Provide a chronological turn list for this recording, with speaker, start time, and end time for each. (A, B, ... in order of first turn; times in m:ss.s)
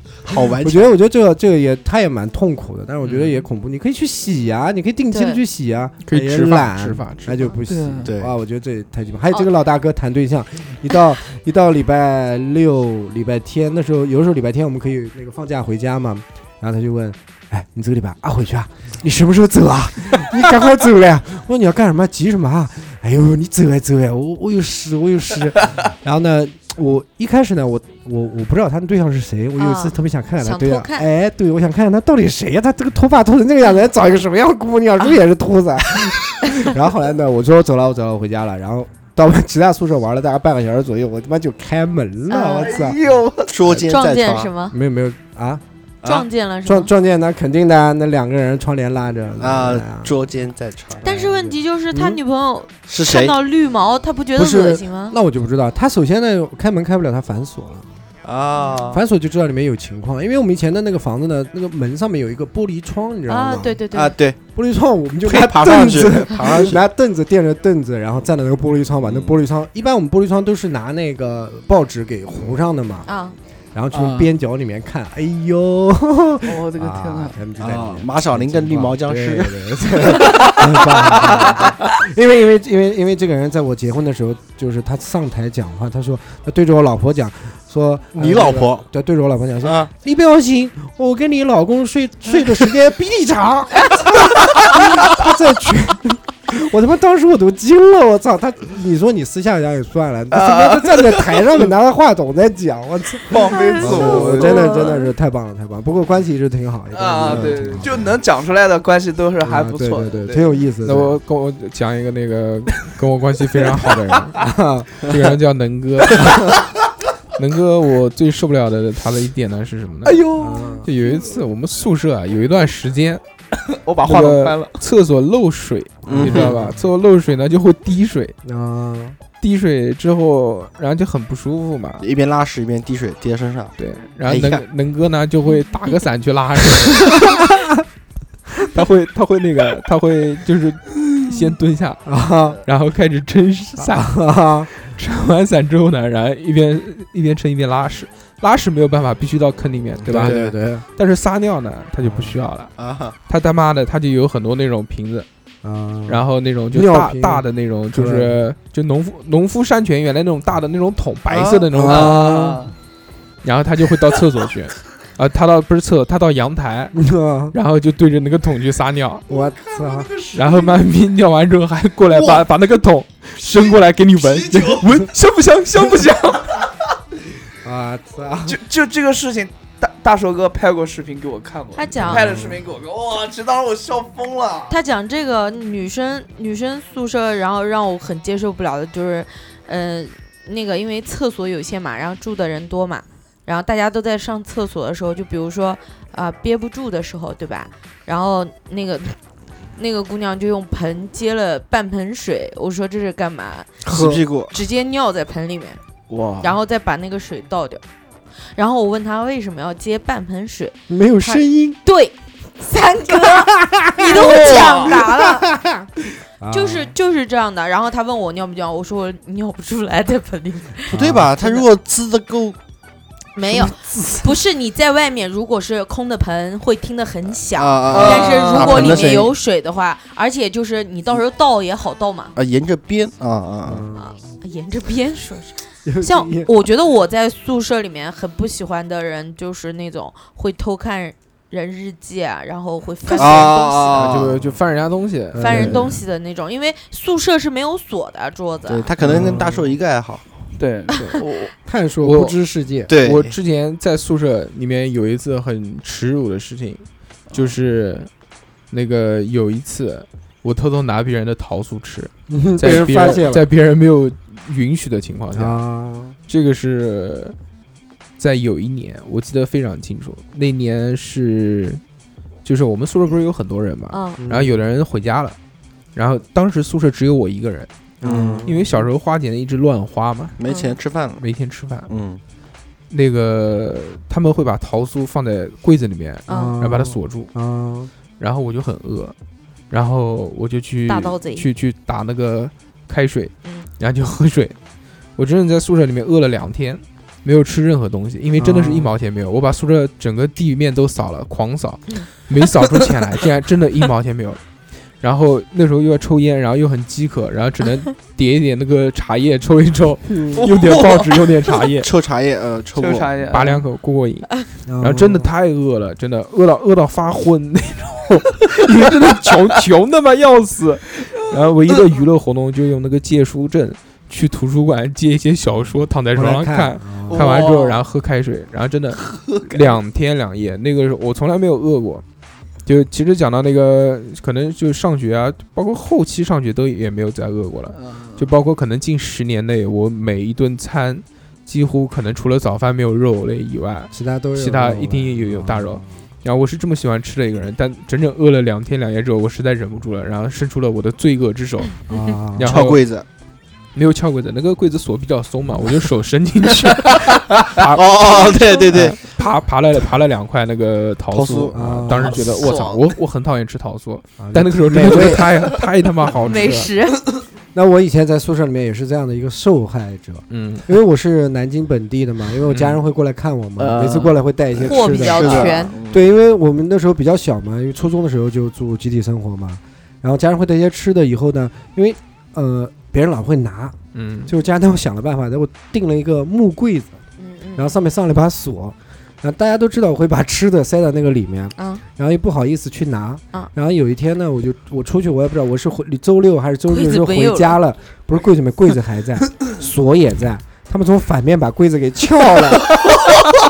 0:00.2-0:00.9 A
0:00.6-0:43.0 B
0:05.1-0:05.4 C
0:06.0-0:07.5 D
0:07.6-0:08.1 E
0:08.0-0:08.3 A
0:29.6-0:31.1 C
0:42.3-0:42.7 C
0:42.6-0:43.6 E
0:43.5-0:44.5 A
0:43.9-0:44.8 C
0:44.7-0:45.6 B
0:46.0-0:46.9 C
0:46.6-0:50.1 B
0:49.4-0:51.1 A
0:51.0-0:52.2 B
0:51.0-0:55.2 C
0:52.9-0:53.4 A
0:54.4-0:57.9 B
0:58.2-0:59.0 A
0:58.9-1:03.8 B
1:03.3-1:04.2 C
1:03.9-1:04.4 A
1:04.5-1:13.1 B
1:05.2-1:06.8 A
1:09.0-1:09.4 A
1:13.1-1:13.4 C
1:13.7-1:48.2 B
1:13.9-1:14.3 E
1:16.4-1:17.4 E
1:17.6-1:19.6 A
1:20.2-1:21.7 E
1:21.2-1:21.5 A
1:28.1-1:28.8 A
1:29.6-1:29.9 A
1:40.3-1:41.7 E
1:43.3-1:44.9 E
1:43.5-1:43.8 C
1:44.4-1:45.1 C
1:46.9-1:50.5 E
1:49.4-1:51.2 B
1:50.8-1:54.4 D
1:53.8-1:54.1 E
1:54.4-1:54.9 B
1:55.0-1:56.6 D
1:57.4-2:00.2 D
2:00.0-2:00.8 E
2:00.4-2:00.9 B
2:00.8-2:03.2 D
2:03.7-2:04.8 E
2:04.0-2:08.3 D
2:06.0-2:06.6 A
2:06.2-2:06.8 B
2:08.4-2:09.2 B
2:09.3-2:12.0 D
2:12.0-2:14.6 A
2:13.8-2:17.5 D
2:17.2-2:17.6 B
2:18.6-2:22.0 D
2:22.0-2:22.6 B
2:22.6-2:24.2 D
2:23.8-2:24.7 B
2:24.7-2:30.4 D
2:30.0-2:30.5 A
2:30.0-2:30.8 B
2:31.0-2:32.7 D
2:32.0-2:32.4 B
2:32.8-2:33.2 A
2:33.3-2:35.2 D
2:35.6-2:38.4 B
2:36.1-2:42.2 D
2:41.3-2:41.8 A
2:41.7-2:42.7 B
2:41.9-2:42.7 E
2:43.4-2:47.0 D
2:46.9-2:47.6 B
2:47.5-2:49.2 D
2:49.3-2:50.1 B
2:49.3-2:50.7 E
2:50.3-2:56.6 D
2:52.1-2:52.4 E
2:54.2-2:54.8 E
2:57.6-2:58.6 B
2:58.5-3:04.8 E
3:01.7-3:02.3 C
3:02.0-3:02.6 B
3:04.7-3:19.2 C
3:19.8-3:23.7 C
3:23.8-3:24.2 B
3:23.8-3:24.5 A
3:24.5-3:25.8 C
3:26.1-3:26.5 E
3:26.4-3:27.8 C
3:28.5-3:35.5 C
3:30.9-3:31.8 B
3:33.1-3:36.9 B
3:34.1-3:35.0 E
3:36.5-3:41.6 C
3:40.9-3:41.3 B
3:40.9-3:42.6 A
3:43.4-3:52.3 C
3:43.5-3:44.3 B
3:47.5-3:49.3 A
3:47.9-3:49.2 E
3:52.4-3:53.9 A
3:53.6-3:54.2 B
3:53.9-4:04.1 C
3:55.8-3:56.5 B
4:03.2-4:04.6 A
4:03.9-4:05.8 D
4:05.3-4:05.9 B
4:05.4-4:08.9 C
4:08.7-4:10.3 A
4:09.0-4:09.7 B
4:10.6-4:11.5 E
4:11.6-4:12.9 B
4:12.0-4:12.4 D
4:12.9-4:13.3 A
4:12.9-4:18.1 D
4:18.7-4:25.6 D
4:22.3-4:23.5 B
4:25.3-4:26.2 B
4:26.3-4:27.4 D
4:28.2-4:31.8 D
4:32.4-4:35.4 D
4:33.9-4:34.2 C
4:34.2-4:34.6 B
4:35.9-4:37.7 D
4:38.0-4:38.6 B
4:38.0-4:38.5 A
4:38.4-4:40.4 D
4:40.4-4:41.2 A
4:40.4-4:40.8 C
4:41.2-4:41.9 D
4:41.9-4:42.2 A
4:42.9-4:47.3 D
4:46.3-4:46.5 C
4:46.3-4:47.9 B
4:48.2-4:49.1 D
4:49.7-4:54.5 D
4:50.9-4:51.4 C
4:55.2-5:04.4 D
4:58.4-4:58.9 B
5:05.0-5:11.9 D
5:10.1-5:10.4 B
5:10.4-5:11.5 E
5:11.8-5:13.2 A
5:12.8-5:13.6 E
5:13.3-5:32.0 D
5:14.7-5:15.3 B
5:26.1-5:27.2 B
5:27.1-5:27.8 E
5:29.0-5:29.8 E
5:32.6-5:52.8 D
5:37.7-5:38.3 E
5:43.9-5:45.9 B
5:51.9-5:52.6 B
5:52.4-5:53.0 A
5:53.7-6:06.7 D
5:57.7-5:59.1 A
6:01.1-6:02.8 A
6:01.5-6:02.2 B
6:02.2-6:02.8 E
6:04.2-6:05.3 B
6:06.3-6:07.0 C
6:07.5-6:27.0 B
6:10.3-6:10.7 D
6:12.5-6:12.8 D
6:13.6-6:14.2 E
6:14.6-6:16.0 A
6:14.6-6:15.8 C
6:23.9-6:24.3 D
6:27.2-6:27.7 C
6:27.6-6:42.8 B
6:31.6-6:31.8 C
6:36.7-6:37.6 C